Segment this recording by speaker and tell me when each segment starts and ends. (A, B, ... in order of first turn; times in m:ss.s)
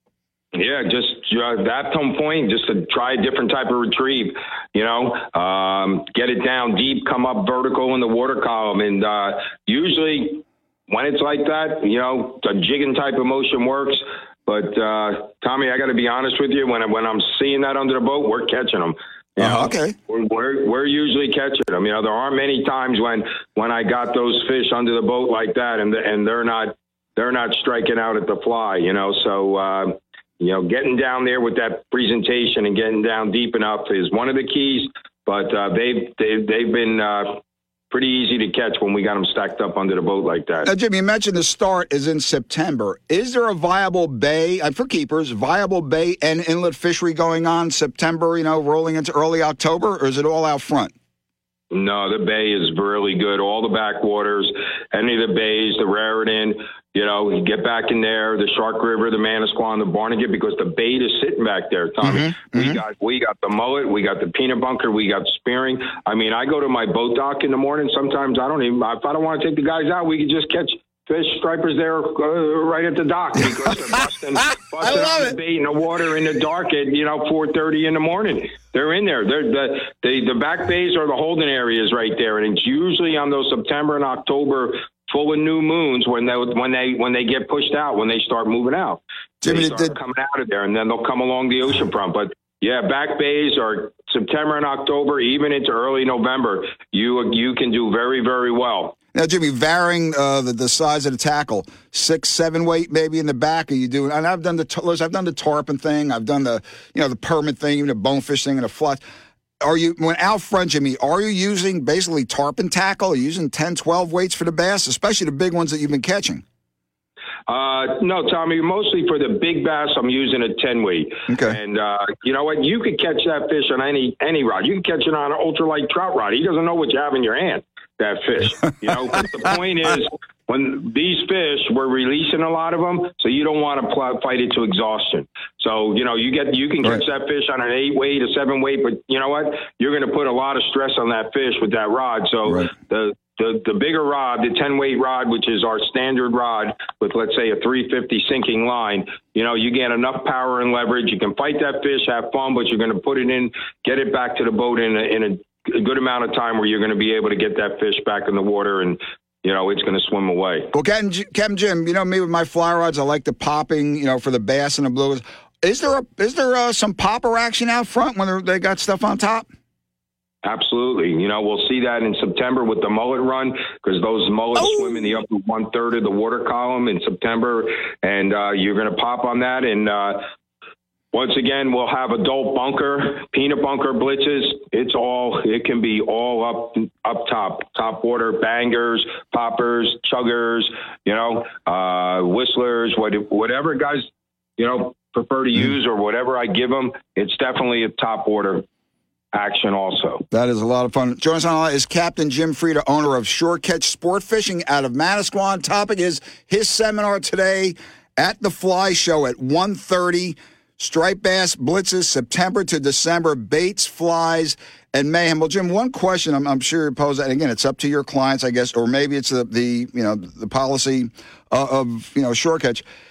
0:00.5-0:40.7 A
0:19.4-0:19.9 B
0:40.6-0:50.9 B
0:51.7-1:38.9 A
1:02.0-1:02.8 B
1:14.4-1:15.3 B
1:29.4-1:30.0 B
1:39.1-1:49.0 B
1:49.6-1:56.4 B
1:57.5-2:40.7 A
2:01.3-2:01.6 B
2:40.7-2:49.5 B
2:50.4-3:00.2 A
2:54.6-2:55.1 B
3:01.1-3:14.0 A
3:14.6-3:18.6 A
3:19.3-3:20.2 A
3:20.3-3:42.8 B